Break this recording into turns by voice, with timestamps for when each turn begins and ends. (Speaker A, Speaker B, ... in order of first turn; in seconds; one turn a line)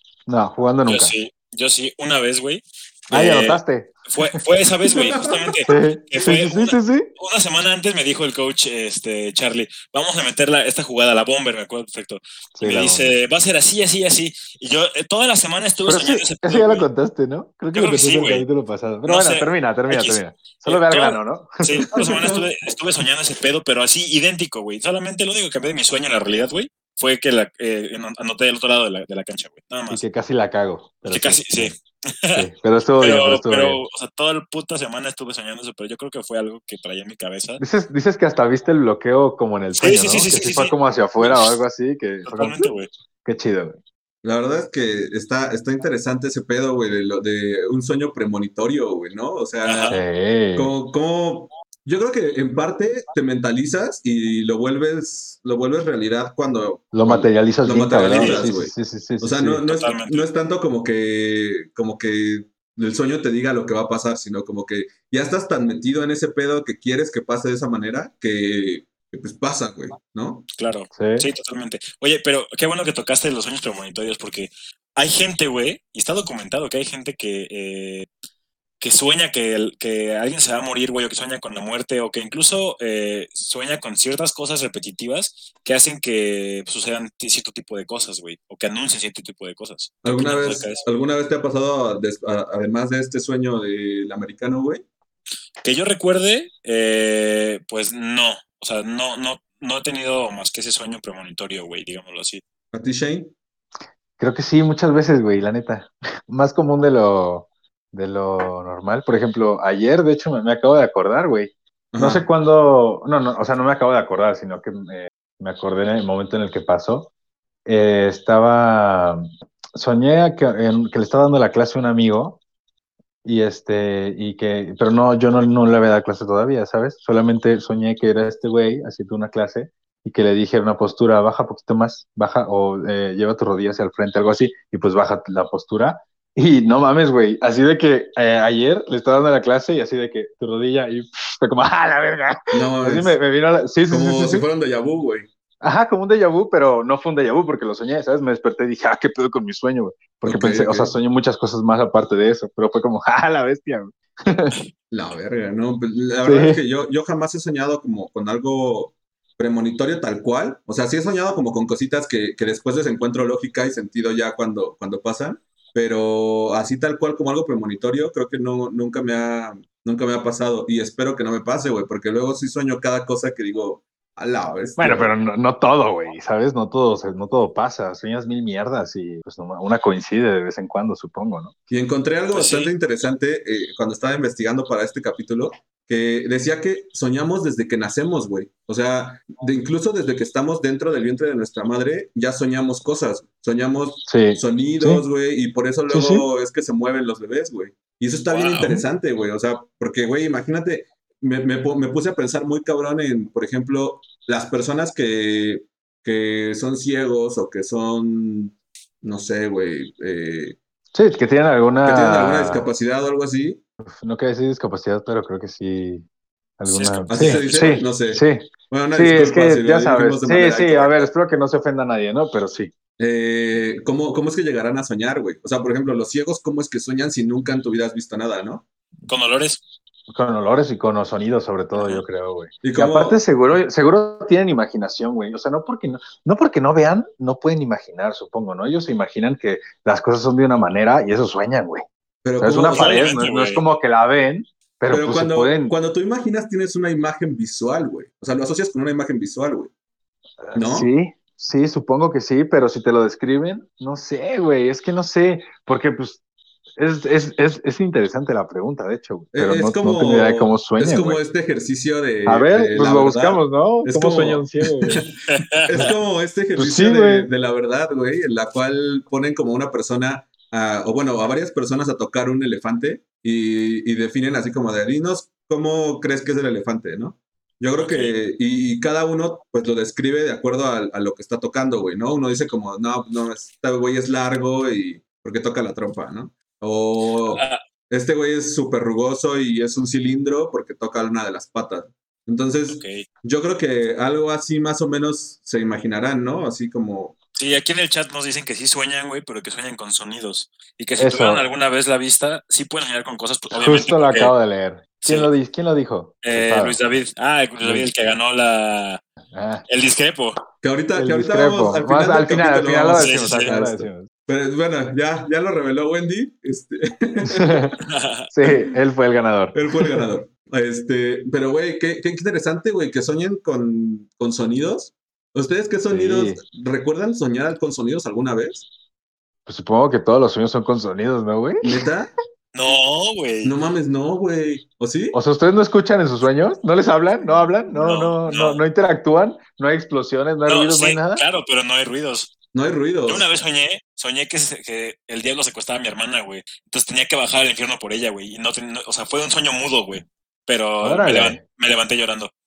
Speaker A: 0.3-1.1
Speaker B: 0.8-16.9
Speaker A: 3.1-4.4
Speaker C: 4.8-5.6
Speaker A: 5.7-7.1
Speaker A: 12.5-13.1
Speaker A: 15.8-22.0
Speaker B: 17.7-18.4
Speaker B: 19.0-30.0
Speaker C: 21.9-22.4
Speaker A: 29.9-31.8
Speaker B: 31.1-32.4
Speaker A: 32.3-33.8
Speaker B: 33.0-37.6
Speaker A: 37.6-42.7
Speaker B: 39.8-41.6
Speaker B: 42.2-42.9
Speaker A: 43.2-43.8
Speaker C: 44.2-50.0
Speaker B: 49.6-50.0
Speaker A: 49.9-50.7
Speaker C: 50.5-70.5
Speaker A: 56.9-59.6
Speaker B: 58.0-58.4
Speaker B: 59.6-60.2
Speaker B: 70.6-78.1
Speaker A: 70.9-71.3
Speaker B: 78.8-90.8
Speaker C: 90.0-94.8
Speaker B: 95.6-102.4
Speaker C: 102.7-103.3
Speaker A: 104.2-117.1
Speaker C: 111.9-112.2
Speaker A: 117.7-122.4
Speaker A: 123.2-144.4
Speaker C: 142.5-143.2
Speaker C: 143.9-145.3
Speaker A: 145.6-154.5
Speaker C: 150.2-150.9
Speaker C: 154.9-175.1
Speaker A: 156.2-156.6
Speaker A: 174.8-181.5
Speaker C: 181.7-210.6
Speaker B: 182.3-182.7
Speaker A: 194.1-195.0
Speaker A: 195.9-196.3
Speaker B: 198.3-198.8
Speaker A: 210.9-212.7
Speaker C: 211.8-213.6
Speaker A: 213.8-216.1
Speaker A: 216.6-222.7
Speaker B: 216.6-217.8
Speaker C: 217.1-221.1
Speaker C: 223.0-228.6
Speaker B: 229.1-229.6
Speaker A: 230.1-241.8
Speaker B: 231.7-232.0
Speaker C: 232.6-233.2
Speaker C: 242.2-243.1
Speaker A: 242.4-245.7
Speaker B: 242.7-243.7
Speaker C: 244.9-249.7
Speaker A: 250.4-256.2
Speaker C: 250.5-250.9
Speaker A: 256.8-261.2
Speaker C: 259.3-265.1
Speaker A: 262.2-265.0
Speaker B: 265.3-265.8
Speaker C: 265.6-297.1
Speaker A: 266.6-267.3
Speaker B: 277.8-278.1
Speaker B: 287.2-287.6
Speaker B: 292.7-293.0
Speaker B: 297.4-304.3
Speaker A: 301.0-301.4
Speaker A: 303.5-306.8
Speaker B: 305.0-305.3
Speaker B: 306.2-309.0
Speaker A: 307.6-307.9
Speaker A: 309.3-309.6
Speaker B: 309.7-310.4
Speaker C: 310.6-317.7
Speaker A: 310.9-314.1
Speaker B: 312.9-313.5
Speaker A: 317.2-317.8
Speaker B: 317.9-318.3
Speaker A: 318.3-320.0
Speaker C: 319.5-328.7
Speaker A: 325.9-326.4
Speaker A: 329.4-331.7
Speaker C: 331.6-332.1
Speaker B: 332.5-333.5
Speaker C: 333.4-335.2
Speaker A: 335.1-341.2
Speaker B: 337.7-338.6
Speaker B: 340.5-342.3
Speaker C: 342.5-343.3
Speaker B: 343.1-352.3
Speaker A: 350.8-351.4